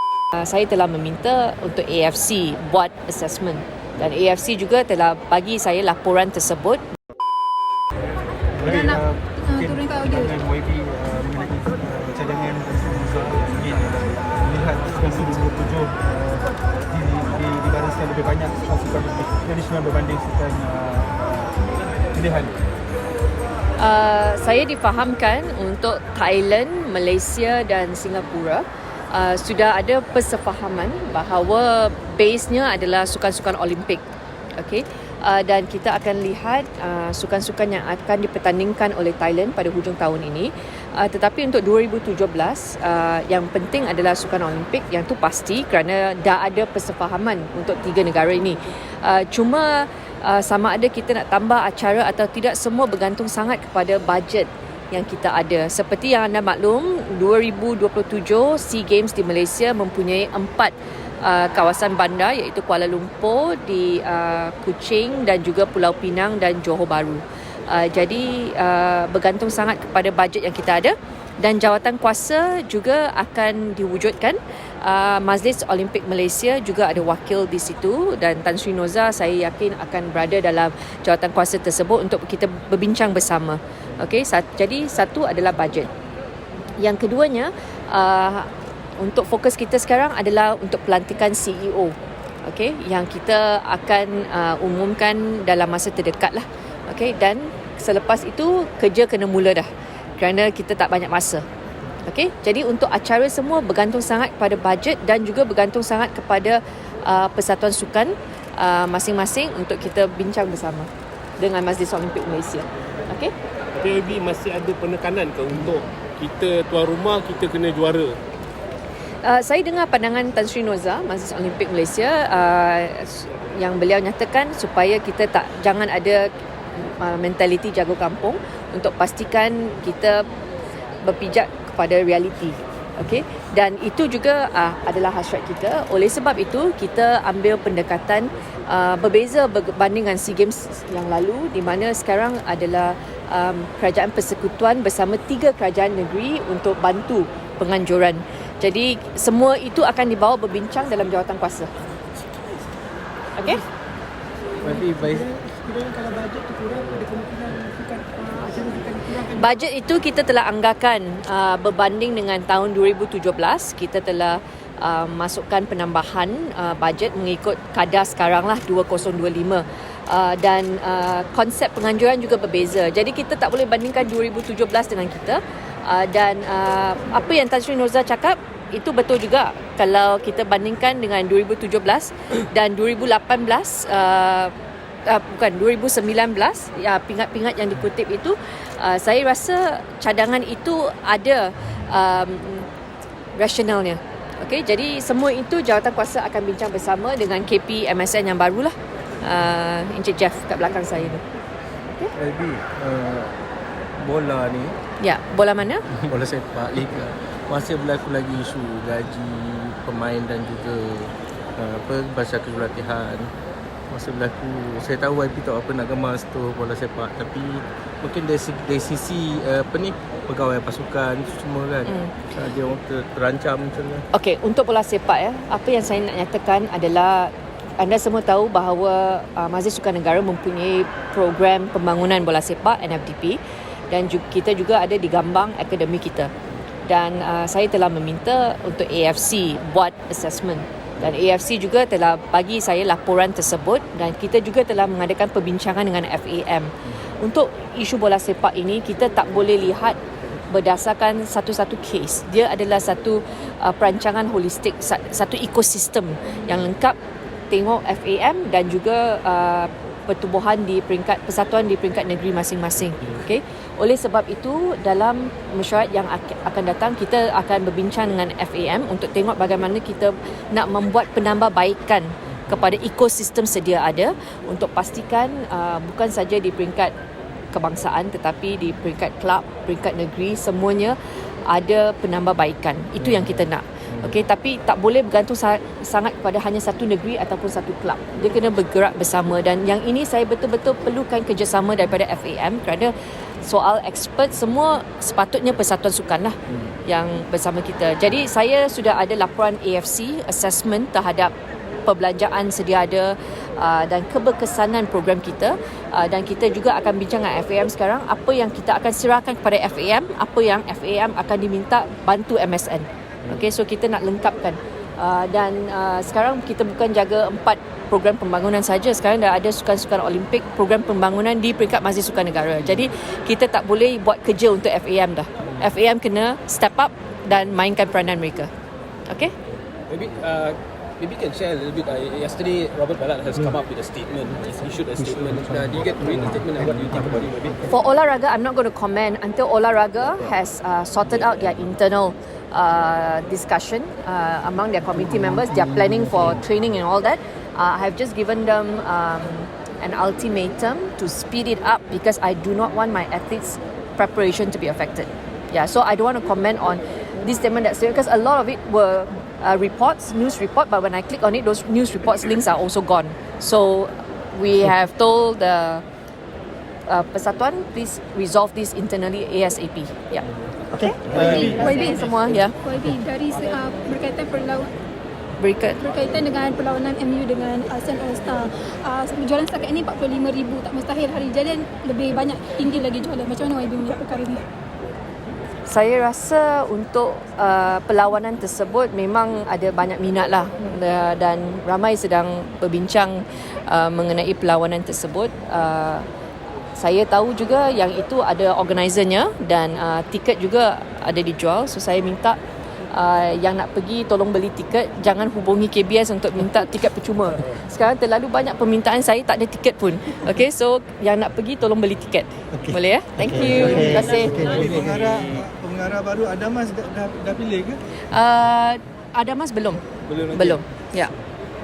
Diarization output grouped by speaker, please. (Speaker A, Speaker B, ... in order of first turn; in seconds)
Speaker A: 0.3-6.8, 23.8-34.0, 34.6-85.9, 86.8-101.4, 102.0-110.9, 111.4-113.3, 119.2-130.3, 131.0-151.7, 153.4-153.6, 159.2-184.5, 185.1-192.7, 193.4-201.2, 205.0-205.9, 224.1-233.4, 233.9-236.3, 236.9-250.0, 250.5-256.9, 257.5-276.9, 277.5-301.3, 301.9-328.5, 329.1-329.4, 337.7-365.9, 366.9-370.2, 370.8-372.6, 375.4-375.8, 385.7-396.1, 396.8-402.4, 402.9-414.6, 418.1-421.1
Speaker B: 8.5-21.5, 22.1-22.6, 371.0-371.6, 413.5-417.8
Speaker C: 8.6-10.3, 371.1-374.7, 375.8-384.4
Speaker D: 113.8-118.1
Speaker E: 154.6-155.3, 202.2-203.4, 204.0-204.8, 205.9-213.3, 213.9-224.1
Speaker F: 155.1-159.3
Speaker G: 329.9-337.7, 420.1-420.5